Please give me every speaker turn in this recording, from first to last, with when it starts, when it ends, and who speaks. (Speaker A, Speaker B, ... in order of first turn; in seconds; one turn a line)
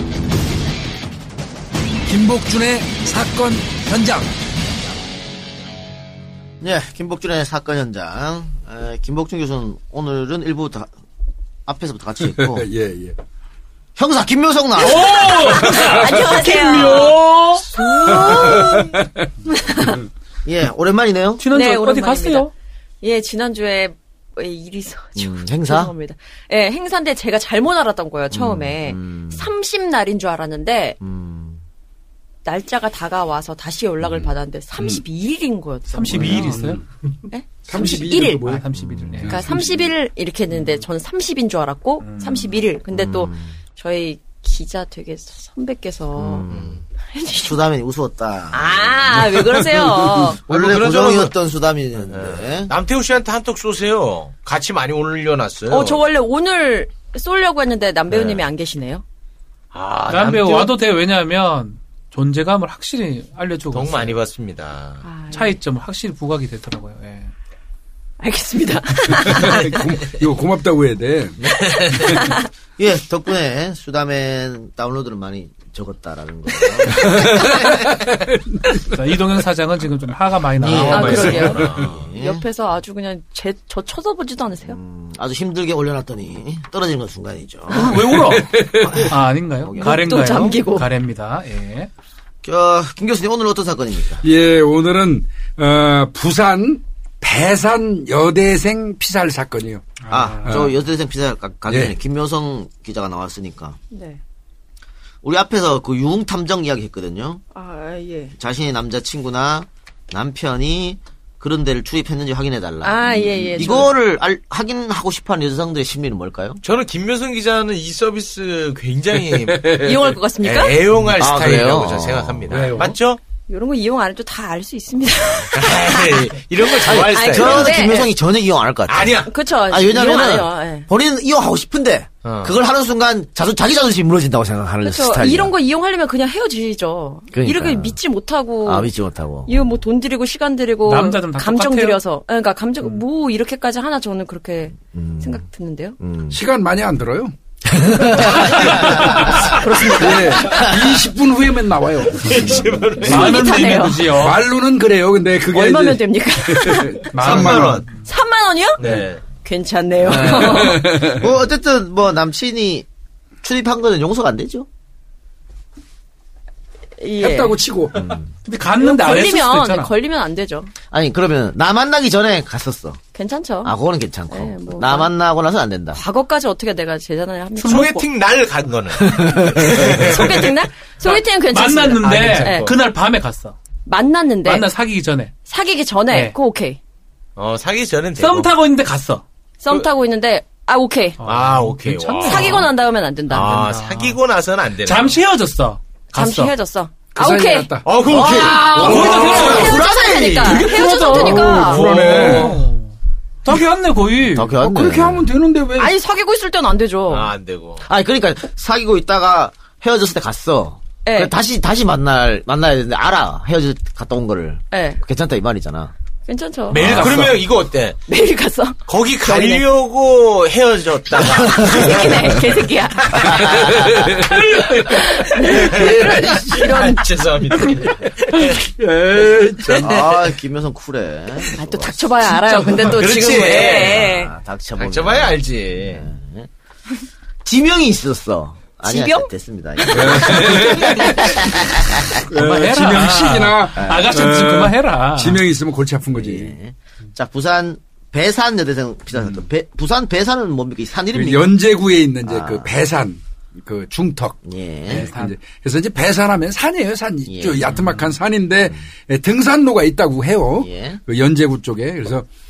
Speaker A: 2.0-4.4
Speaker B: 6.6-10.9
Speaker B: 11.7-12.7
Speaker A: 12.2-13.2
Speaker B: 14.0-15.6
Speaker C: 14.8-18.5
Speaker D: 15.3-17.2
Speaker A: 15.6-16.2
Speaker D: 17.7-18.9
Speaker A: 18.1-19.3
Speaker D: 19.5-20.0
Speaker B: 20.4-21.4
Speaker C: 21.4-22.5
Speaker D: 21.5-22.5
Speaker D: 23.0-31.0
Speaker B: 25.2-25.9
Speaker B: 28.3-29.5
Speaker B: 31.0-31.6
Speaker D: 32.5-36.6
Speaker C: 35.9-36.8
Speaker A: 36.1-36.8
Speaker D: 37.3-38.5
Speaker A: 37.7-38.7
Speaker C: 37.7-39.6
Speaker B: 38.8-39.3
Speaker A: 39.2-39.9
Speaker D: 39.3-46.5
Speaker C: 42.0-42.6
Speaker B: 42.9-43.5
Speaker B: 46.2-46.8
Speaker E: 46.5-46.8
Speaker D: 47.1-47.6
Speaker B: 47.4-52.7
Speaker D: 48.5-50.4
Speaker E: 50.0-51.4
Speaker E: 52.0-56.0
Speaker D: 55.7-59.0
Speaker E: 58.1-58.5
Speaker E: 59.7-60.7
Speaker C: 60.1-64.2
Speaker E: 63.7-65.0
Speaker D: 65.0-65.5
Speaker C: 65.3-67.3
Speaker D: 68.2-69.8
Speaker A: 69.2-72.2
Speaker D: 71.6-72.4
Speaker B: 72.8-77.8
Speaker A: 76.9-79.0
Speaker C: 78.9-81.6
Speaker B: 80.6-82.4
Speaker D: 80.7-84.8
Speaker E: 80.9-82.1
Speaker B: 84.6-88.1
Speaker C: 87.7-91.9
Speaker A: 88.0-89.1
Speaker B: 88.8-90.3
Speaker D: 89.8-90.9
Speaker B: 92.4-94.2
Speaker A: 94.2-99.9
Speaker C: 100.0-100.7
Speaker B: 100.1-103.8
Speaker A: 100.5-100.8
Speaker A: 101.7-101.9
Speaker D: 103.9-104.2
Speaker B: 105.2-107.4
Speaker D: 107.5-108.3
Speaker B: 108.4-116.6
Speaker D: 112.8-113.9
Speaker E: 116.6-123.2
Speaker A: 119.2-120.0
Speaker D: 119.8-120.8
Speaker B: 121.1-122.7
Speaker A: 122.5-122.9
Speaker D: 123.5-128.1
Speaker E: 125.5-128.0
Speaker B: 126.8-135.5
Speaker E: 128.9-129.3
Speaker D: 129.2-130.9
Speaker E: 132.2-132.6
Speaker D: 134.8-138.9
Speaker B: 137.3-138.0
Speaker B: 138.6-139.8
Speaker D: 139.5-146.0
Speaker C: 140.9-142.0
Speaker B: 144.9-145.4
Speaker B: 146.0-146.4
Speaker A: 146.3-147.3
Speaker B: 147.7-148.8
Speaker A: 148.1-153.1
Speaker D: 148.2-150.9
Speaker C: 148.5-149.5
Speaker E: 152.2-153.7
Speaker C: 153.0-154.4
Speaker D: 153.1-154.2
Speaker A: 154.1-157.9
Speaker D: 155.5-161.0
Speaker C: 157.1-157.9
Speaker E: 157.1-158.0
Speaker E: 158.8-159.2
Speaker B: 160.0-162.9
Speaker A: 160.1-161.3
Speaker B: 163.4-164.7
Speaker D: 167.0-167.6
Speaker A: 167.2-168.1
Speaker B: 167.9-168.3
Speaker C: 168.4-169.9
Speaker D: 168.8-170.7
Speaker B: 170.9-173.0
Speaker D: 173.1-173.7
Speaker B: 173.6-176.0
Speaker D: 174.3-175.1
Speaker D: 175.9-177.9
Speaker C: 177.6-178.0
Speaker E: 177.6-180.5
Speaker B: 179.2-180.1
Speaker D: 179.7-182.7
Speaker C: 181.0-183.6
Speaker E: 182.0-182.8
Speaker D: 183.8-184.7
Speaker C: 184.4-185.3
Speaker D: 185.5-186.8
Speaker C: 186.1-186.3
Speaker E: 187.4-188.5
Speaker C: 188.2-189.2
Speaker D: 189.6-191.2
Speaker C: 191.2-192.7
Speaker E: 191.2-192.7
Speaker D: 192.2-193.6
Speaker E: 193.3-195.2
Speaker C: 193.3-194.2
Speaker C: 194.8-196.5
Speaker D: 196.1-197.7
Speaker A: 197.1-199.7
Speaker E: 197.8-200.6
Speaker B: 198.1-200.6
Speaker C: 198.2-202.9
Speaker D: 198.9-202.3
Speaker A: 201.1-202.6
Speaker E: 201.5-202.6
Speaker C: 203.4-204.5
Speaker B: 204.3-205.3
Speaker A: 204.6-205.9
Speaker D: 205.8-207.3
Speaker E: 207.1-207.8
Speaker B: 207.8-215.9
Speaker D: 211.1-211.3
Speaker D: 214.7-215.0
Speaker D: 216.3-217.1
Speaker E: 216.7-218.0
Speaker A: 216.8-217.4
Speaker D: 218.1-219.6
Speaker E: 218.9-224.1
Speaker D: 221.4-223.7
Speaker B: 223.2-224.2
Speaker A: 223.8-224.8
Speaker D: 224.3-227.1
Speaker E: 225.2-228.6
Speaker A: 225.4-226.7
Speaker A: 227.6-230.1
Speaker B: 229.8-232.3
Speaker D: 229.8-230.1
Speaker D: 231.5-234.3
Speaker E: 232.7-234.1
Speaker A: 232.8-233.3
Speaker B: 233.0-236.5
Speaker E: 234.8-236.1
Speaker B: 237.4-242.2
Speaker D: 238.9-241.6
Speaker A: 239.9-241.5
Speaker A: 242.0-246.5
Speaker C: 242.3-245.4
Speaker B: 243.8-244.1
Speaker B: 246.1-251.4
Speaker A: 249.2-249.4
Speaker A: 251.1-262.3
Speaker B: 252.3-252.7
Speaker B: 254.4-255.1
Speaker C: 254.9-255.3
Speaker B: 257.3-257.8
Speaker C: 257.7-258.1
Speaker B: 260.6-261.0